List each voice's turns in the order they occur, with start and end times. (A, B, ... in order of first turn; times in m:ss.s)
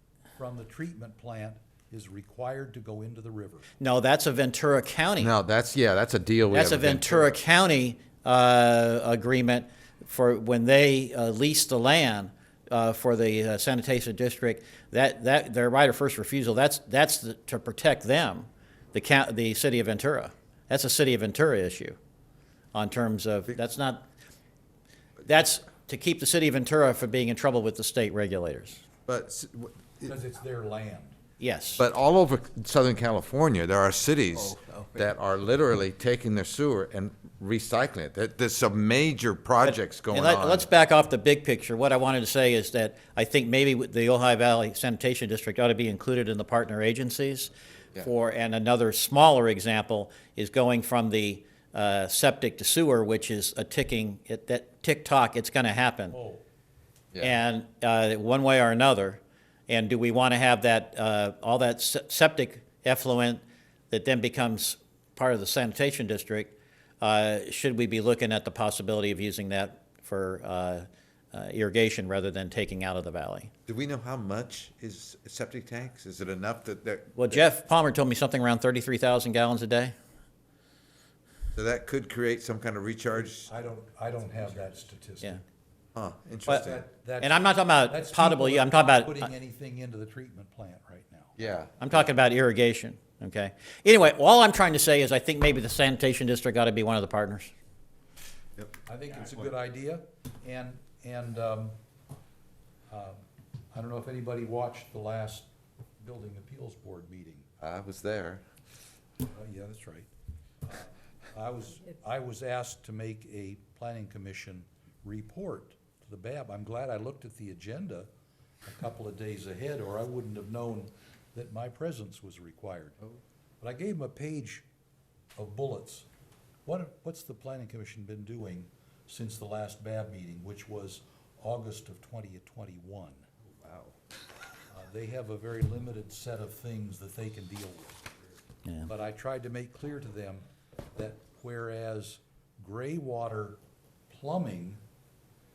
0:00.4-0:03.7 A
0:03.8-0:05.4 B
0:05.2-0:07.3 C
0:06.5-0:22.0 B
0:22.7-0:24.0 B
0:25.2-0:28.8 B
0:29.1-0:30.1 C
0:30.0-0:31.2 A
0:31.4-0:31.8 B
0:31.8-0:40.7 C
0:39.6-0:56.2 B
0:56.1-0:56.4 A
0:57.1-0:57.4 C
0:57.2-1:13.5 B
1:13.7-1:17.4 C
1:17.2-1:19.9 B
1:21.5-1:23.6 C
1:23.4-1:25.4 A
1:26.0-1:26.8 C
1:26.5-1:31.4 A
1:27.2-1:29.3 B
1:31.4-1:31.9 C
1:31.8-1:37.5 B
1:38.8-1:41.8 A
1:42.9-1:45.5 A
1:46.0-1:47.5 A
1:47.6-1:48.4 C
1:49.2-1:50.1 A
1:50.6-1:58.1 A
1:58.6-2:03.0 A
2:03.6-2:04.7 A
2:05.4-2:06.1 A
2:06.7-2:13.3 A
2:13.6-2:13.9 C
2:14.7-2:18.2 A
2:18.9-2:24.8 A